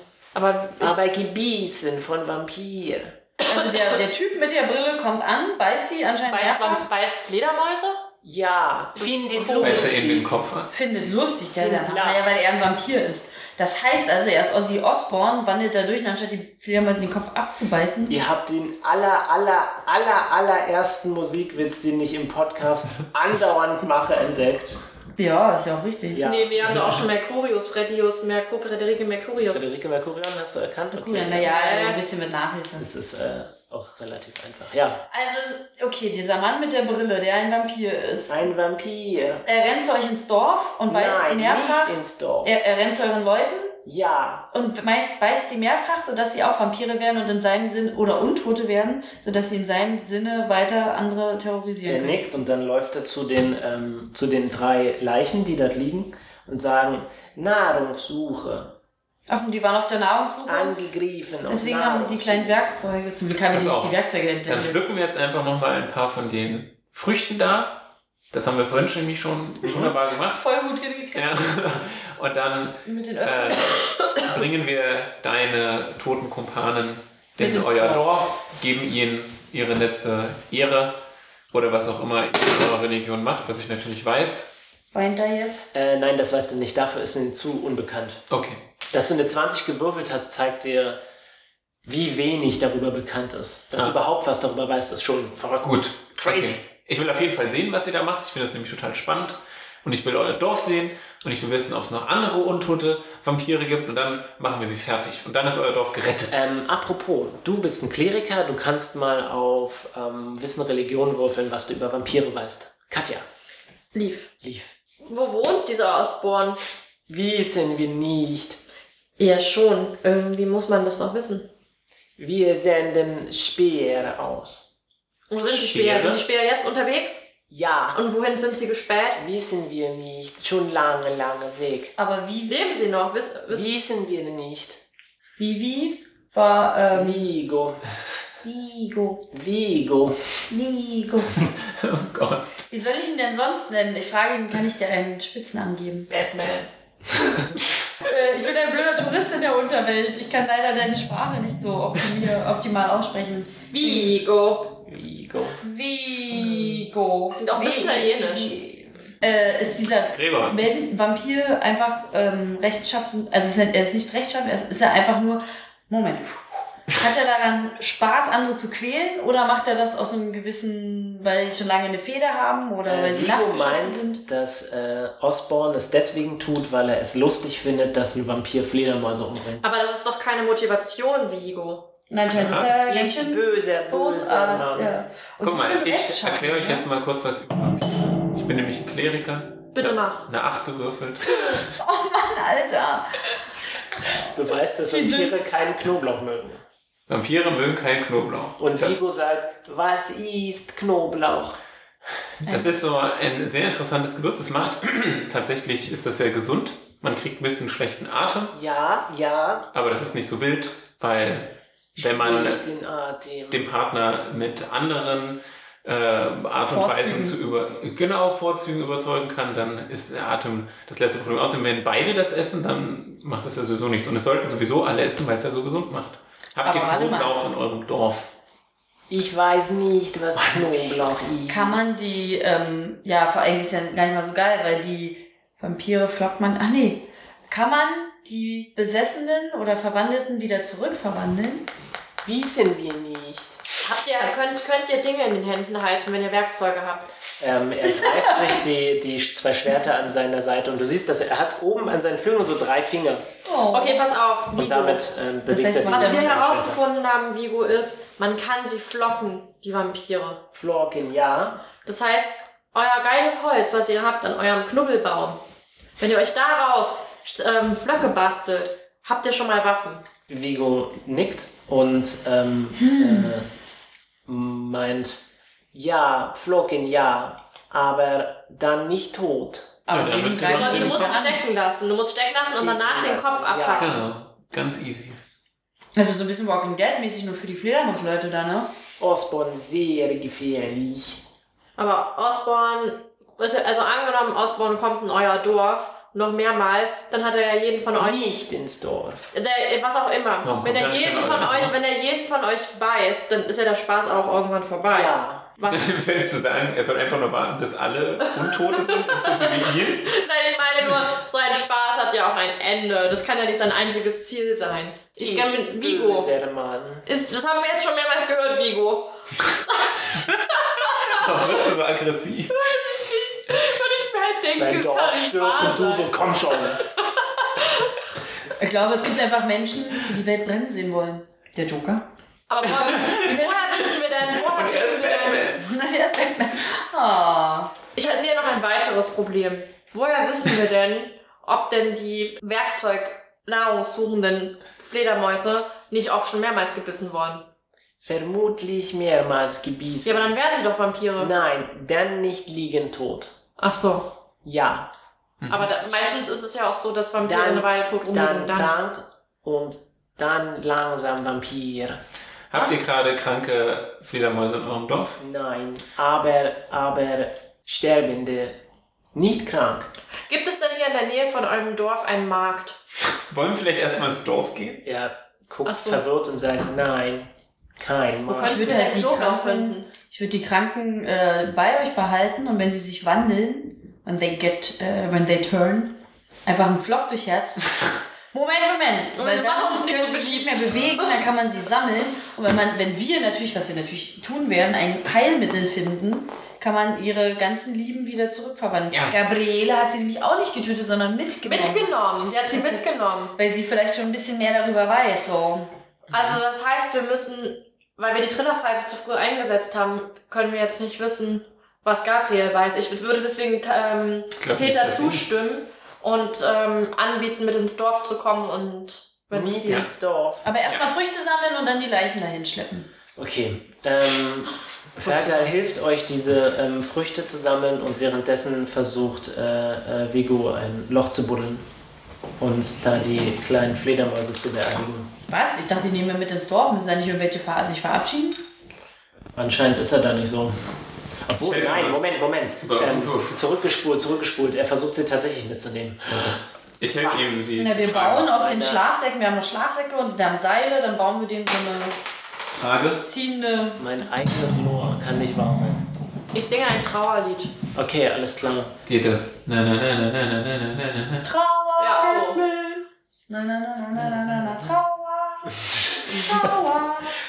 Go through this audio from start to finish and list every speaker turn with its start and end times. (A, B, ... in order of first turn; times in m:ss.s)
0:00.3-0:01.0 A
0:00.8-0:03.2 B
0:03.4-0:06.8 C
0:03.5-0:04.0 A
0:06.3-0:08.0 A
0:08.2-0:10.3 B
0:09.0-0:10.0 A
0:09.6-0:10.7 D
0:10.7-0:18.2 C
0:11.6-0:12.2 B
0:18.1-0:24.8 B
0:25.2-0:26.2 C
0:26.1-0:26.8 B
0:26.2-0:29.6 A
0:29.4-0:31.6 B
0:30.9-0:32.9 C
0:31.5-0:32.0 A
0:32.8-0:35.1 B
0:35.1-0:38.4 C
0:38.3-0:39.5 B
0:39.4-0:43.8 C
0:40.9-0:42.6 B
0:43.8-0:44.5 B
0:44.5-0:52.3 C
0:51.9-0:58.8 B
0:59.3-1:00.8 C
1:00.5-1:02.6 B
1:01.5-1:04.8 C
1:03.5-1:10.4 D
1:09.8-1:11.3 C
1:11.1-1:21.0 D
1:12.8-1:13.8 C
1:17.4-1:18.1 C
1:21.5-1:24.6 D
1:24.9-1:25.7 C
1:25.7-1:28.2 B
1:28.3-1:28.6 D
1:28.9-1:31.0 B
1:31.8-1:36.6 B
1:35.6-1:46.4 D
1:46.3-1:53.2 B
1:53.9-1:54.3 A
1:54.4-1:54.8 B
1:55.1-1:56.6 A
1:57.1-1:58.6 B
1:59.2-2:01.5 A
2:02.2-2:04.7 B
2:05.3-2:07.2 A
2:05.5-2:06.1 B
2:05.7-2:06.2 D
2:07.5-2:08.0 B
2:07.9-2:09.2 A
2:09.2-2:12.0 B
2:12.0-2:12.8 C
2:12.5-2:13.7 A
2:13.5-2:14.8 B
2:15.4-2:17.3 C
2:16.9-2:17.8 B
2:18.4-2:19.2 C
2:19.3-2:20.3 B
2:20.5-2:21.5 C
2:21.5-2:22.7 D
2:22.7-2:26.1 C
2:26.1-2:26.6 D
2:28.0-2:34.2 C
2:33.7-2:34.8 A
2:34.8-2:35.6 B
2:35.6-2:54.2 C
2:36.4-2:36.8 B
2:37.4-2:38.5 A
2:40.1-2:40.8 D
2:52.9-2:59.7 B
2:59.6-3:01.9 A
3:02.1-3:06.8 C
3:02.3-3:02.7 D
3:02.8-3:04.9 B
3:05.4-3:11.7 D
3:09.8-3:10.3 A
3:11.8-3:13.2 C
3:14.2-3:16.6 B
3:14.9-3:15.4 C
3:17.1-3:19.0 D
3:18.6-3:21.6 B
3:22.4-3:22.7 C
3:22.5-3:28.6 D
3:28.5-3:29.7 B
3:29.7-3:32.6 D
3:32.0-3:33.7 B
3:33.5-3:48.3 D
3:36.6-3:37.4 C
3:46.6-3:47.4 C
3:49.1-3:52.0 B
3:50.4-3:50.8 D
3:51.5-4:01.7 C
4:02.2-4:03.6 B
4:03.8-4:07.2 A
4:07.4-4:13.3 B
4:08.0-4:08.6 C
4:13.4-4:14.0 C
4:13.7-4:15.0 A
4:14.6-4:16.8 B
4:15.5-4:16.4 C
4:15.9-4:20.4 A
4:20.5-4:21.6 B
4:21.8-4:25.4 A
4:26.0-4:30.0 A
4:30.3-4:33.5 B
4:32.8-4:33.3 C
4:34.3-4:35.2 B
4:35.7-4:39.8 B
4:39.9-4:41.4 C
4:39.9-4:41.2 D
4:40.5-4:44.0 A
4:42.5-4:44.0 B
4:43.8-4:45.2 D
4:46.0-4:48.7 C
4:49.0-4:51.2 B
4:51.8-4:58.3 A
4:58.0-4:59.3 B
4:59.3-5:06.0 A
5:00.4-5:01.7 D
5:04.9-5:05.6 B
5:05.7-5:10.2 D
5:08.4-5:16.3 A
5:15.2-5:17.1 B
5:17.1-5:21.7 A
5:20.8-5:22.7 D
5:22.5-5:26.1 A
5:24.5-5:26.8 B
5:26.9-5:28.0 A
5:28.6-5:32.1 C
5:32.5-5:35.5 A
5:32.6-5:35.7 D
5:33.3-5:33.6 C
5:35.6-5:37.7 C
5:38.0-5:47.5 A
5:48.0-5:50.4 B
5:50.0-5:51.3 A
5:51.2-5:53.4 B
5:53.6-5:54.1 A
5:54.4-5:54.9 B
5:55.4-5:55.8 D
5:55.5-5:58.7 A
5:57.2-6:02.0 B
6:02.5-6:05.2 D
6:02.5-6:02.8 A
6:05.2-6:08.6 B
6:09.1-6:09.9 B
6:10.3-6:12.8 A
6:13.3-6:14.9 D
6:14.8-6:18.8 B
6:15.7-6:16.0 A
6:18.3-6:19.9 A
6:18.5-6:27.8 C
6:28.3-6:42.8 C
6:29.2-6:31.2 A
6:38.9-6:39.2 D
6:41.4-6:43.3 A
6:43.4-6:45.7 C
6:46.1-6:46.4 D
6:46.1-6:59.9 A
6:54.4-6:55.3 D
6:59.3-7:00.5 B
7:00.4-7:02.9 C
7:03.2-7:11.7 B
7:05.0-7:05.5 A
7:12.4-7:15.1 B
7:15.3-7:18.4 C
7:19.4-7:20.6 B
7:21.3-7:26.4 B
7:21.4-7:22.1 D
7:22.6-7:23.4 D
7:26.8-7:28.3 D
7:26.9-7:27.3 B
7:27.6-7:32.0 C
7:28.2-7:28.8 B
7:32.6-7:33.0 D
7:33.0-7:33.8 C
7:33.8-7:35.8 B
7:36.3-7:37.6 A
7:37.7-7:38.7 B
7:38.9-7:41.3 D
7:41.2-7:42.5 C
7:41.8-7:42.5 A
7:42.2-7:42.8 B
7:43.3-7:47.2 C
7:45.5-7:46.5 B